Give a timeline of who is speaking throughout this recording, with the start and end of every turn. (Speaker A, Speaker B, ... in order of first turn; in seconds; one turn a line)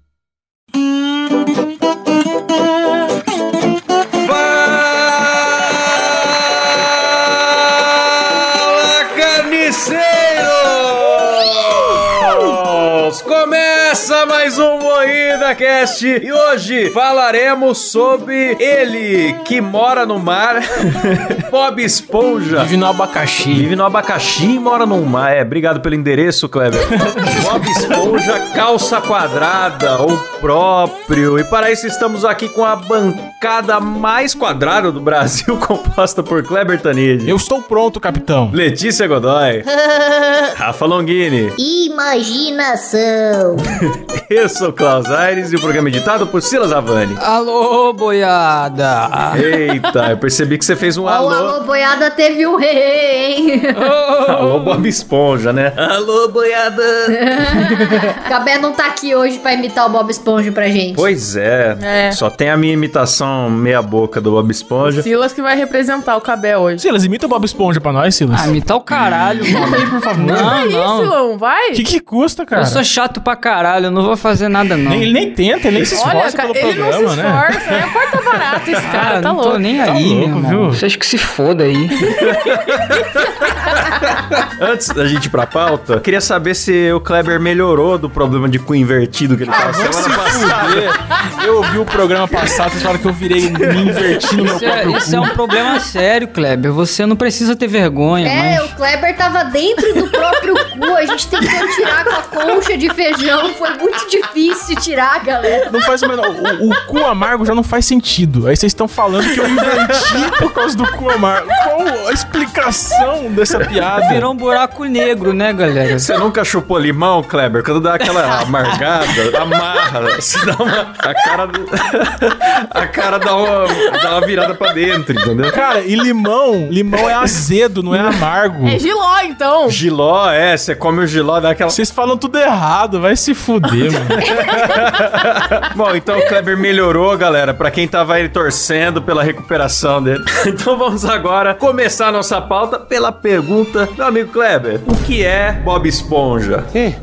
Speaker A: 4.2-22.7
Speaker B: 22.5-23.7
Speaker A: 23.5-37.4
Speaker B: 26.9-28.1
Speaker B: 37.2-38.6
Speaker A: 38.5-39.6
Speaker A: 40.5-41.6
Speaker C: 41.6-43.7
Speaker A: 43.7-47.2
Speaker D: 47.2-49.4
Speaker A: 49.3-51.5
Speaker C: 51.0-53.8
Speaker D: 53.7-54.8
Speaker A: 54.2-57.6
Speaker C: 57.1-61.1
Speaker A: 61.0-65.1
Speaker E: 61.8-62.2
Speaker E: 64.8-66.8
Speaker B: 66.8-68.5
Speaker D: 68.3-71.1
Speaker B: 69.5-70.5
Speaker E: 70.3-71.8
Speaker B: 71.7-72.8
Speaker D: 72.5-75.1
Speaker B: 74.8-78.6
Speaker E: 75.9-79.7
Speaker D: 78.8-82.3
Speaker B: 79.8-80.8
Speaker A: 82.2-91.0
Speaker B: 89.5-95.4
Speaker A: 93.5-94.6
Speaker D: 94.4-98.7
Speaker C: 98.2-105.8
Speaker A: 101.5-101.9
Speaker B: 105.7-114.3
Speaker D: 114.0-116.1
Speaker A: 116.0-125.6
Speaker B: 125.5-128.8
Speaker E: 128.6-129.8
Speaker A: 129.7-131.8
Speaker B: 131.7-134.2
Speaker A: 134.1-146.7
Speaker C: 134.3-134.7